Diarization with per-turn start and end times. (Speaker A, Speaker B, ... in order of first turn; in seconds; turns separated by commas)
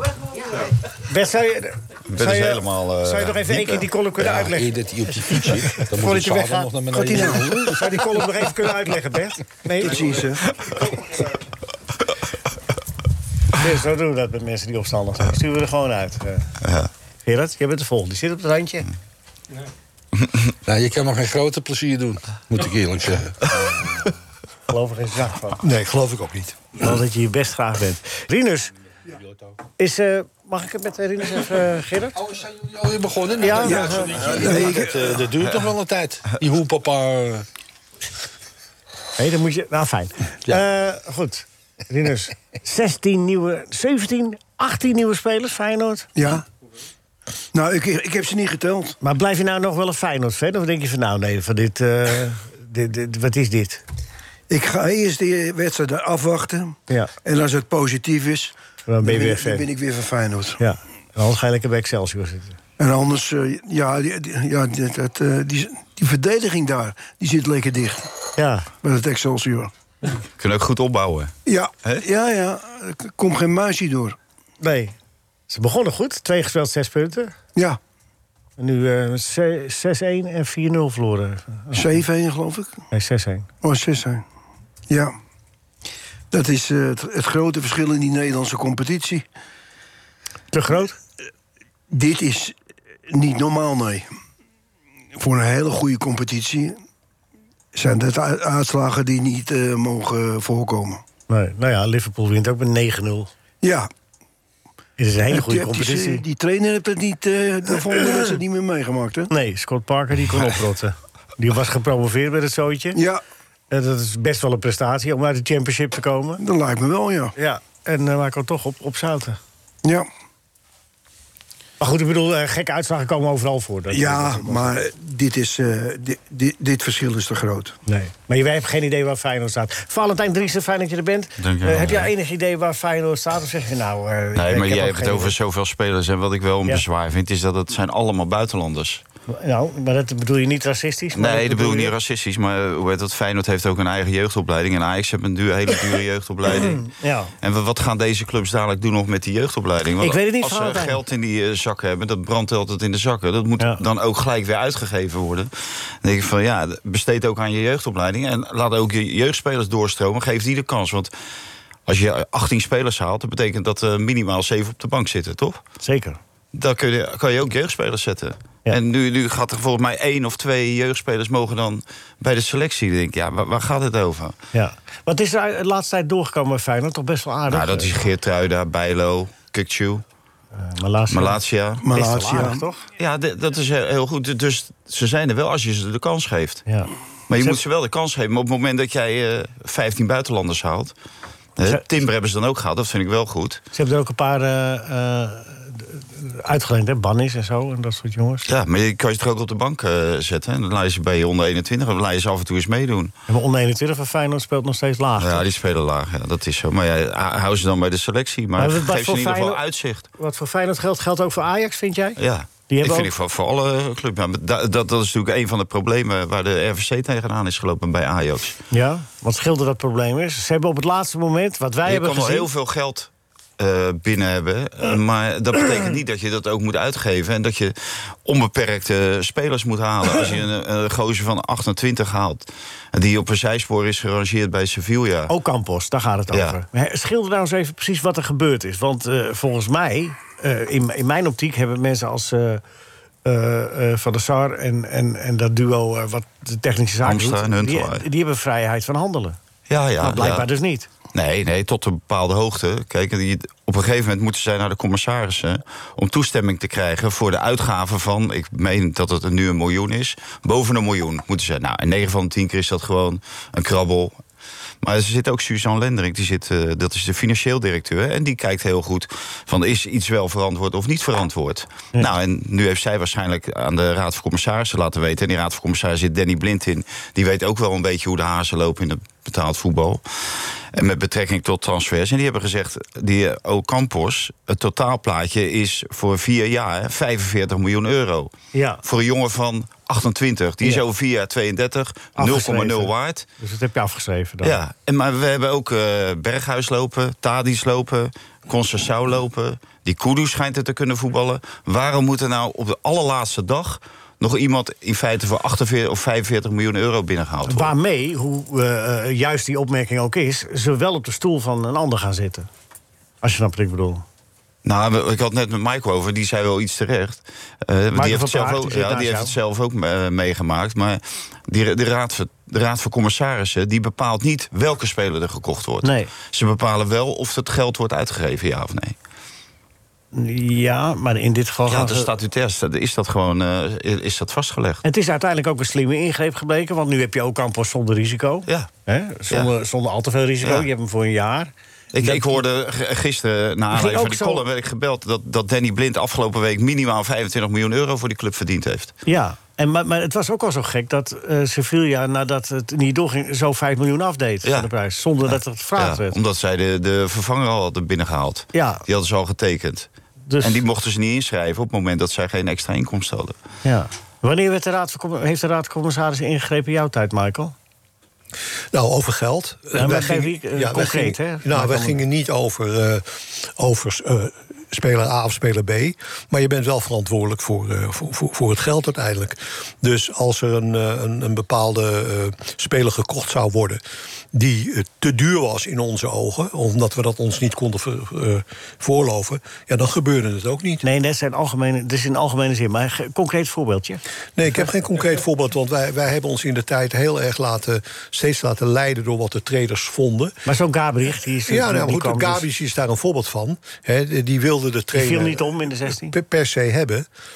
Speaker A: 1.1-4.8, Speaker B: 2.1-3.9, Speaker C: 4.2-7.8, Speaker A: 5.4-11.2, Speaker D: 6.9-7.8, Speaker D: 9.8-10.4, Speaker A: 13.5-16.5, Speaker B: 16.6-16.9, Speaker A: 17.3-18.9, Speaker C: 20.6-24.1, Speaker A: 24.7-25.6, Speaker E: 25.6-26.6, Speaker A: 26.8-28.7, Speaker C: 29.1-29.6, Speaker A: 29.8-32.2, Speaker C: 32.2-37.5, Speaker A: 33.4-34.4, Speaker D: 33.6-35.2, Speaker A: 39.2-46.1, Speaker D: 46.2-46.4, Speaker D: 47.5-49.0, Speaker A: 49.0-53.8, Speaker D: 54.5-60.6, Speaker A: 58.9-59.6, Speaker A: 60.6-62.6, Speaker D: 62.8-68.1, Speaker A: 68.4-68.7, Speaker D: 68.8-69.7, Speaker B: 70.4-71.3, Speaker D: 71.5-74.2, Speaker A: 74.6-74.9, Speaker A: 75.5-77.4, Speaker A: 78.6-81.9, Speaker D: 81.7-82.8, Speaker A: 82.9-83.5, Speaker D: 83.6-84.2, Speaker D: 84.9-85.2, Speaker D: 86.3-89.3, Speaker A: 90.5-91.0, Speaker D: 91.9-92.5, Speaker D: 93.1-94.1, Speaker D: 95.2-96.8, Speaker D: 97.8-101.0, Speaker A: 101.3-103.3, Speaker D: 103.6-103.9, Speaker A: 105.0-106.2, Speaker D: 105.3-109.3, Speaker A: 109.3-113.0, Speaker D: 113.0-113.2, Speaker A: 113.7-116.4, Speaker D: 116.4-117.3, Speaker A: 117.4-119.4, Speaker A: 121.8-124.8, Speaker D: 123.9-127.7, Speaker A: 127.9-135.3, Speaker B: 131.4-132.1, Speaker B: 134.3-139.0, Speaker A: 139.3-141.9, Speaker B: 141.2-146.9, Speaker A: 146.5-147.3, Speaker B: 147.4-155.5, Speaker A: 150.0-151.0, Speaker B: 156.0-161.1, Speaker B: 161.9-165.6, Speaker A: 165.8-166.2, Speaker B: 166.5-174.4, Speaker A: 174.5-178.0, Speaker B: 177.5-180.0, Speaker A: 180.6-181.4, Speaker B: 181.1-181.8, Speaker D: 181.8-182.7, Speaker A: 181.9-182.9, Speaker B: 183.0-186.6, Speaker A: 186.7-187.6, Speaker B: 187.3-190.9, Speaker B: 191.6-193.6, Speaker A: 193.7-198.5, Speaker B: 198.5-203.1, Speaker A: 203.3-205.4, Speaker B: 205.2-210.1, Speaker A: 208.6-209.6, Speaker A: 210.2-212.2, Speaker B: 212.2-218.6, Speaker A: 212.7-213.1, Speaker A: 218.7-222.5, Speaker B: 221.8-235.3, Speaker A: 235.3-242.6, Speaker B: 236.3-236.6, Speaker A: 243.2-249.4, Speaker B: 247.0-248.1, Speaker B: 249.7-250.5, Speaker A: 250.0-250.9, Speaker B: 251.1-264.2, Speaker B: 264.8-293.2, Speaker A: 288.5-288.8, Speaker A: 292.2-294.6, Speaker B: 294.4-307.7, Speaker A: 307.5-312.5, Speaker A: 313.2-314.1, Speaker B: 314.6-329.0, Speaker A: 317.9-319.3, Speaker A: 325.8-326.1, Speaker A: 330.1-332.1, Speaker B: 331.7-334.8, Speaker A: 334.8-341.5, Speaker B: 341.9-348.9, Speaker A: 342.0-342.3, Speaker A: 343.7-344.4, Speaker A: 349.1-356.2, Speaker B: 354.4-354.7, Speaker B: 355.2-359.9, Speaker A: 358.5-358.8, Speaker A: 360.3-360.6, Speaker B: 360.4-363.4, Speaker A: 363.6-367.6, Speaker E: 368.7-383.8, Speaker A: 369.8-372.0, Speaker E: 384.3-390.8, Speaker A: 390.8-394.0, Speaker E: 394.4-400.4, Speaker A: 400.5-402.4, Speaker E: 401.4-407.1, Speaker A: 404.9-406.1